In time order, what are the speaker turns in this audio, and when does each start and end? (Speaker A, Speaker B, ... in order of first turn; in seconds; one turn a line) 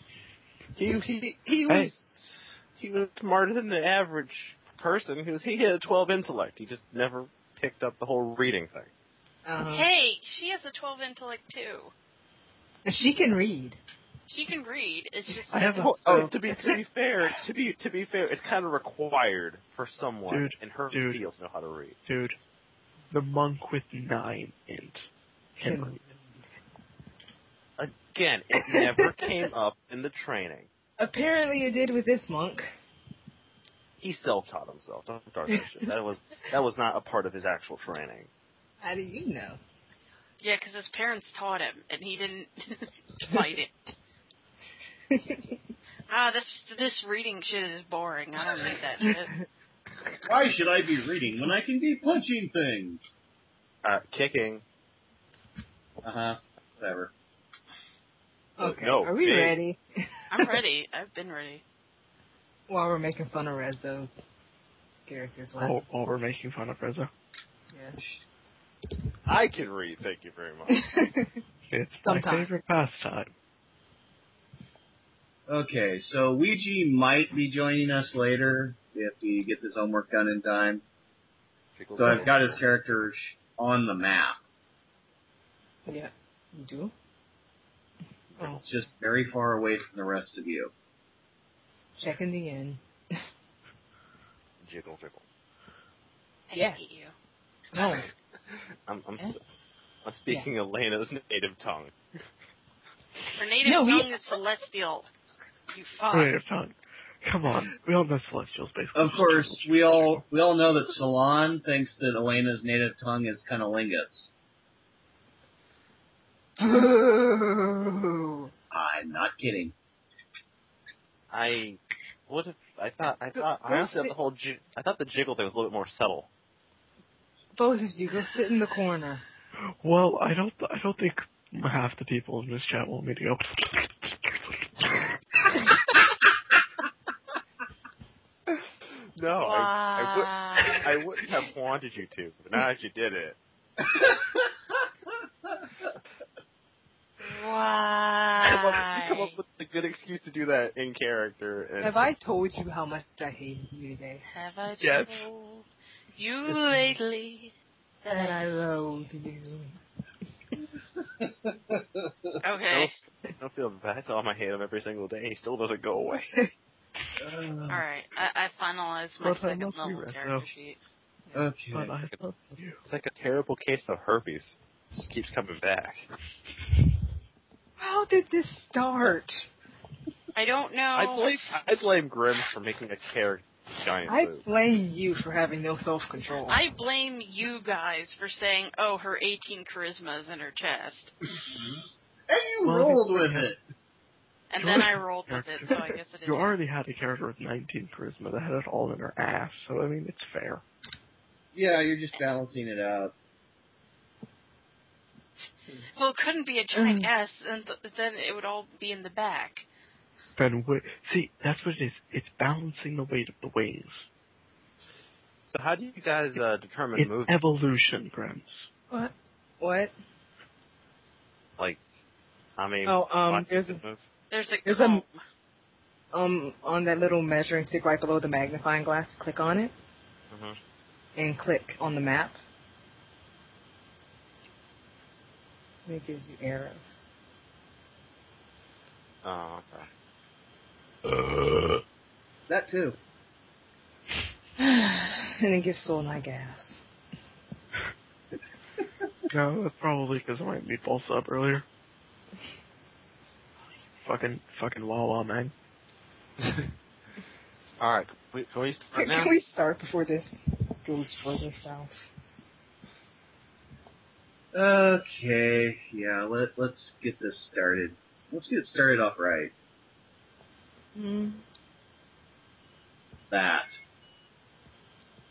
Speaker A: 0.8-8.9
Speaker B: 9.4-9.9
Speaker C: 9.6-11.9
Speaker B: 12.8-13.8
Speaker C: 14.3-16.2
Speaker D: 15.5-16.3
Speaker A: 15.8-22.0
Speaker B: 16.5-16.8
Speaker D: 20.3-21.2
Speaker D: 22.1-22.4
Speaker D: 23.1-25.1
Speaker B: 25.6-26.2
Speaker D: 25.6-26.0
Speaker A: 27.8-30.7
Speaker B: 28.6-29.4
Speaker B: 31.0-32.7
Speaker A: 34.0-38.3
Speaker B: 38.8-39.6
Speaker C: 40.4-43.9
Speaker B: 45.1-45.6
Speaker C: 46.1-49.3
Speaker E: 50.2-53.3
Speaker A: 53.8-54.6
Speaker E: 56.0-57.1
Speaker B: 58.6-60.5
Speaker A: 58.6-59.6
Speaker C: 60.3-61.6
Speaker B: 62.7-64.1
Speaker B: 65.1-65.8
Speaker D: 65.6-67.1
Speaker B: 67.7-68.0
Speaker A: 69.2-70.9
Speaker B: 70.7-71.4
Speaker D: 71.7-73.3
Speaker B: 72.0-72.5
Speaker E: 75.5-80.8
Speaker A: 81.8-82.6
Speaker E: 82.0-84.4
Speaker B: 85.9-86.9
Speaker A: 88.4-88.6
Speaker B: 88.4-88.6
Speaker E: 88.6-90.7
Speaker B: 92.0-92.8
Speaker A: 94.6-95.2
Speaker C: 96.5-97.1
Speaker B: 96.5-96.8
Speaker B: 97.7-98.1
Speaker A: 98.9-99.4
Speaker A: 100.0-102.2
Speaker C: 103.4-105.1
Speaker B: 103.6-104.1
Speaker C: 105.7-106.4
Speaker D: 106.1-110.2
Speaker E: 109.0-114.3
Speaker B: 116.6-118.5
Speaker E: 118.7-119.8
Speaker A: 121.3-126.3
Speaker B: 123.3-124.2
Speaker B: 127.5-129.2
Speaker D: 129.7-134.7
Speaker A: 138.5-143.4
Speaker C: 139.4-140.9
Speaker E: 143.8-144.4
Speaker C: 147.2-149.4
Speaker A: 148.4-152.0
Speaker B: 151.8-154.2
Speaker C: 154.3-157.5
Speaker D: 154.8-155.3
Speaker B: 158.0-159.8
Speaker C: 158.1-158.4
Speaker E: 161.2-162.3
Speaker C: 162.4-162.9
Speaker A: 162.7-166.4
Speaker E: 167.2-167.8
Speaker C: 167.7-170.8
Speaker D: 169.2-170.5
Speaker E: 171.3-171.9
Speaker D: 171.7-172.8
Speaker A: 172.8-176.1
Speaker B: 177.8-179.5
Speaker C: 180.3-181.4
Speaker A: 180.9-184.4
Speaker B: 184.1-186.6
Speaker C: 186.5-191.1
Speaker E: 191.5-193.6
Speaker D: 192.6-193.5
Speaker C: 194.5-196.6
Speaker D: 194.6-200.6
Speaker E: 201.5-203.1
Speaker C: 205.4-209.7
Speaker B: 206.7-207.1
Speaker D: 210.4-214.1
Speaker A: 215.5-217.4
Speaker D: 217.0-218.7
Speaker B: 218.9-219.9
Speaker A: 222.6-224.0
Speaker B: 222.8-223.8
Speaker C: 224.3-225.2
Speaker B: 224.7-225.0
Speaker B: 226.1-229.7
Speaker A: 230.3-230.6
Speaker B: 231.2-232.4
Speaker B: 235.9-236.8
Speaker A: 239.2-239.9
Speaker D: 241.1-241.8
Speaker E: 242.5-243.0
Speaker B: 244.6-246.8
Speaker D: 249.3-251.7
Speaker D: 254.1-255.5
Speaker A: 257.8-259.3
Speaker B: 258.9-262.1
Speaker E: 264.5-269.5
Speaker B: 270.9-271.4
Speaker E: 273.3-273.8